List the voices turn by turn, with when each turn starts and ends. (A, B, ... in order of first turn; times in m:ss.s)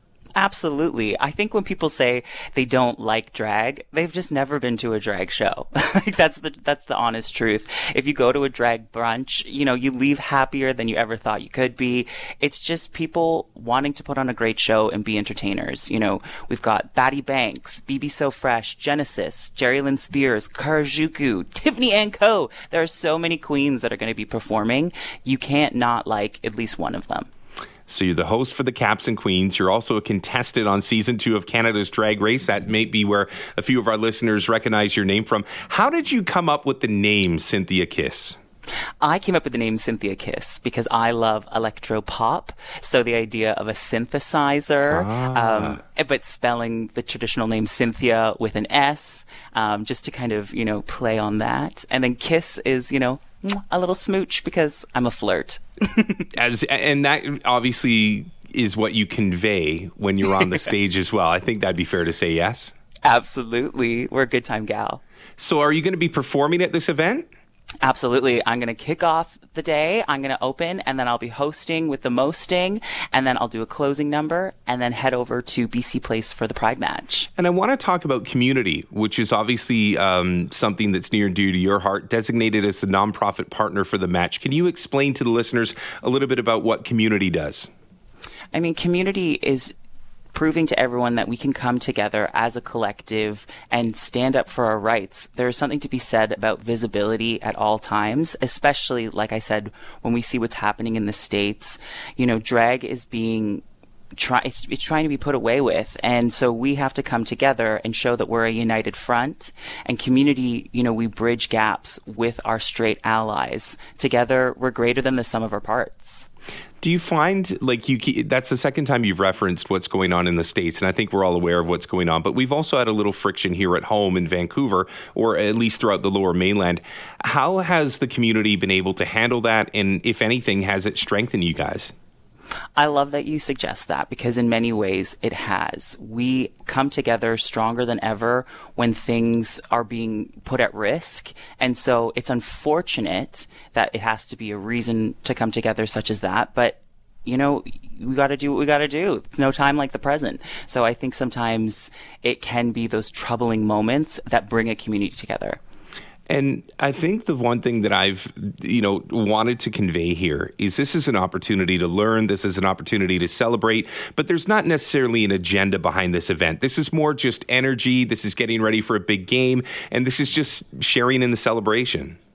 0:00.4-0:27.3 A
0:27.9-0:38.4 B
0:39.0-0:56.2 A
0:44.9-0:45.8 B
0:56.3-1:02.7 B
1:03.0-1:05.0 A
1:05.4-1:07.3 B
1:07.8-1:17.3 A
1:17.4-1:27.7 B
1:28.5-1:29.8 A
1:30.3-1:43.6 A
1:44.1-1:56.3 A
1:56.8-2:11.9 B
2:12.8-2:35.6 A
2:36.3-2:52.2 B